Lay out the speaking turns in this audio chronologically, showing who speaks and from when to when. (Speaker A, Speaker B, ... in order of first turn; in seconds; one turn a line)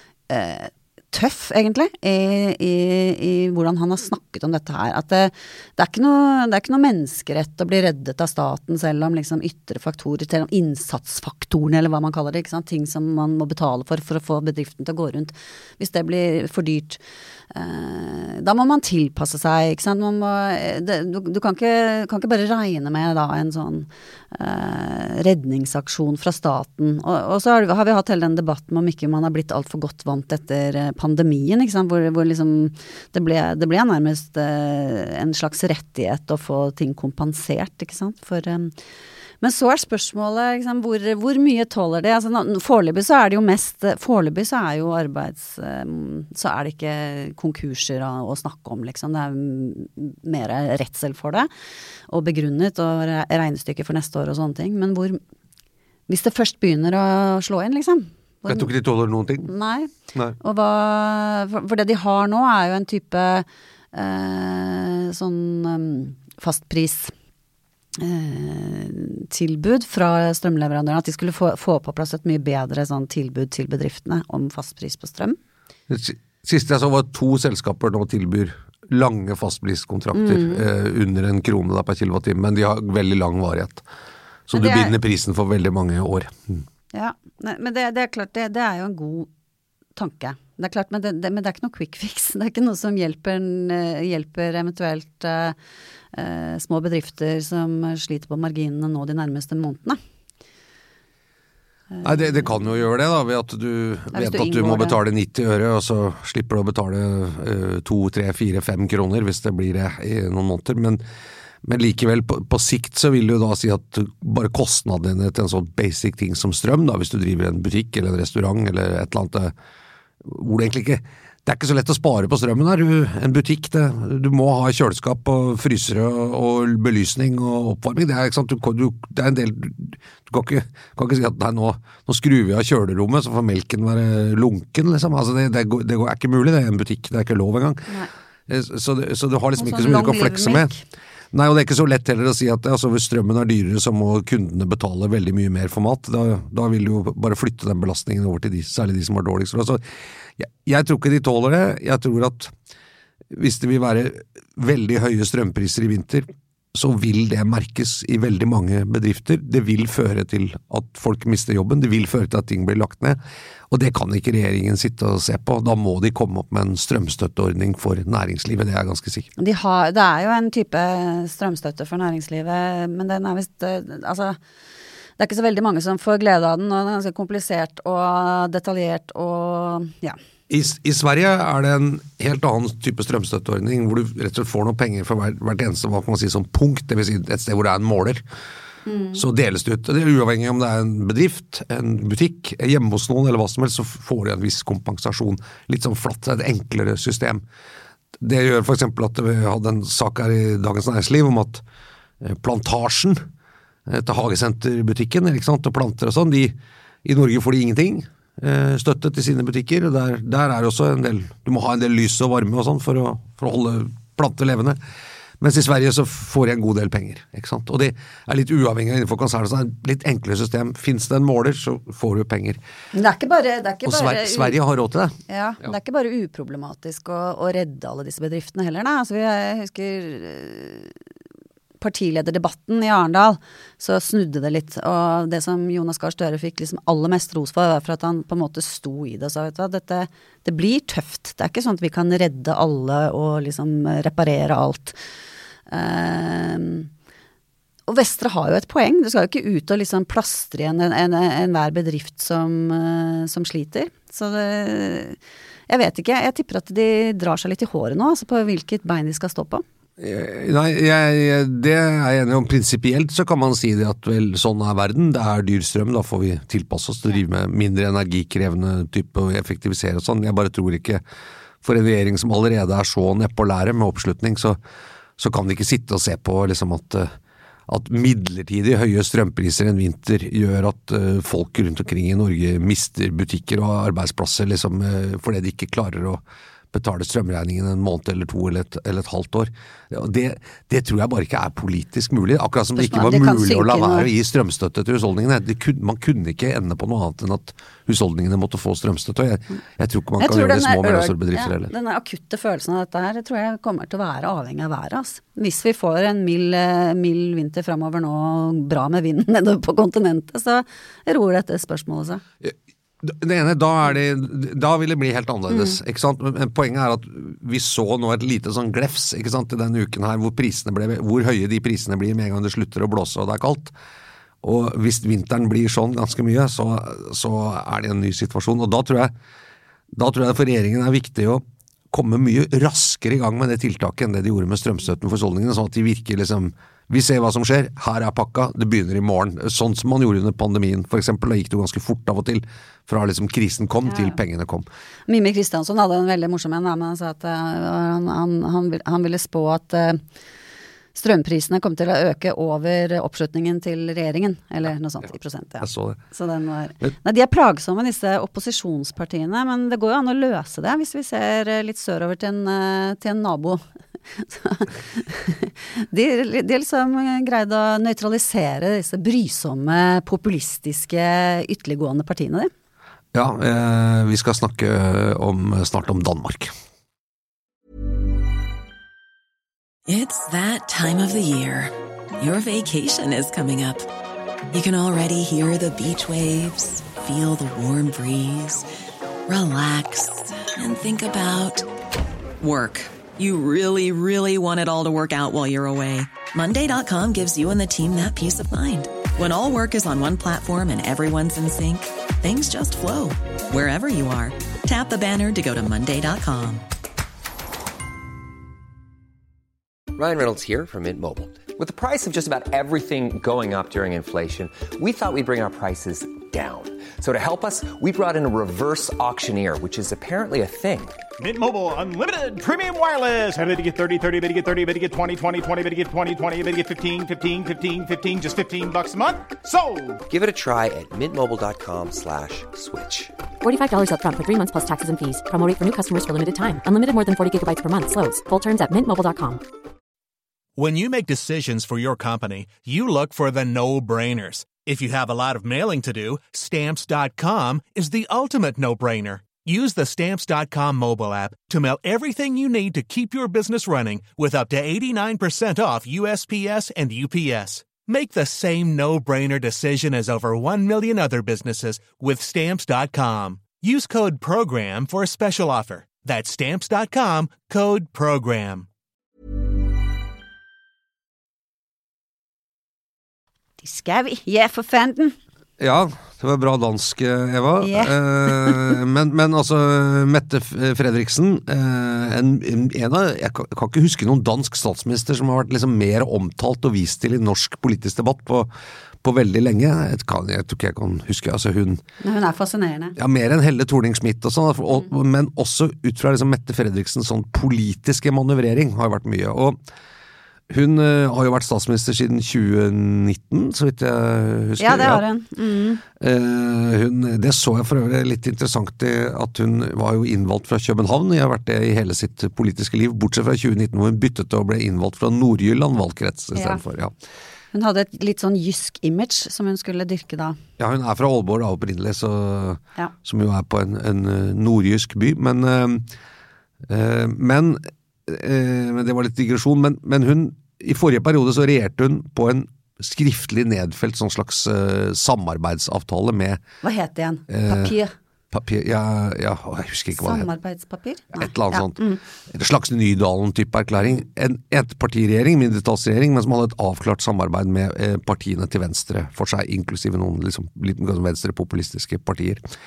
Speaker A: 0.3-38.7
Speaker A: 39.4-51.5
Speaker A: 52.1-55.2
Speaker A: 56.1-58.7
Speaker B: 58.5-59.5
Speaker A: 59.4-67.1
Speaker A: 68.0-75.4
Speaker B: 75.9-83.8
Speaker A: 80.1-80.6
Speaker B: 84.5-86.6
Speaker A: 84.5-84.9
Speaker A: 86.9-89.3
Speaker A: 90.0-95.6
Speaker A: 96.1-100.0
Speaker A: 101.9-102.5
Speaker B: 102.0-111.0
Speaker A: 104.1-105.0
Speaker B: 111.6-119.5
Speaker B: 120.2-137.9
Speaker B: 138.5-140.7
Speaker A: 139.6-140.8
Speaker B: 141.3-149.8
Speaker B: 150.4-152.5
Speaker B: 153.3-163.2
Speaker B: 163.7-169.3
Speaker A: 169.4-174.4
Speaker A: 175.2-180.2
Speaker B: 180.5-188.2
Speaker A: 188.8-189.2
Speaker B: 189.1-197.4
Speaker B: 198.2-201.6
Speaker B: 202.2-203.2
Speaker B: 203.9-214.8
Speaker B: 215.4-222.6
Speaker A: 222.9-224.6
Speaker B: 223.8-225.7
Speaker A: 225.3-230.9
Speaker A: 231.8-244.9
Speaker A: 245.7-246.9
Speaker A: 247.9-259.6
Speaker B: 260.0-271.0
Speaker B: 271.6-274.6
Speaker B: 275.2-277.1
Speaker B: 277.7-286.2
Speaker B: 286.7-301.7
Speaker A: 292.7-294.1
Speaker A: 300.2-312.2
Speaker B: 312.4-323.7
Speaker A: 315.5-315.8
Speaker B: 324.4-329.1
Speaker B: 329.9-344.6
Speaker A: 343.9-344.2
Speaker A: 345.1-350.0
Speaker A: 350.9-372.5
Speaker B: 355.6-356.0
Speaker B: 373.1-376.5
Speaker C: 379.9-383.9
Speaker C: 384.5-388.6
Speaker C: 389.3-391.6
Speaker C: 392.4-406.6
Speaker D: 409.9-421.0
Speaker E: 421.2-430.0
Speaker D: 430.1-433.1
Speaker F: 433.4-439.4
Speaker G: 440.6-468.7
Speaker A: 473.6-475.2
Speaker B: 475.6-488.5
Speaker A: 477.6-478.7
Speaker B: 489.0-491.8
Speaker A: 492.0-492.9
Speaker B: 493.0-499.6
Speaker B: 500.5-505.0
Speaker A: 504.6-505.8
Speaker B: 506.0-516.9
Speaker A: 516.3-516.6
Speaker A: 517.5-520.4
Speaker B: 520.6-525.9
Speaker B: 526.7-536.4
Speaker A: 536.6-537.9
Speaker B: 537.3-537.7
Speaker B: 538.3-540.3
Speaker A: 539.9-542.0
Speaker B: 541.2-552.4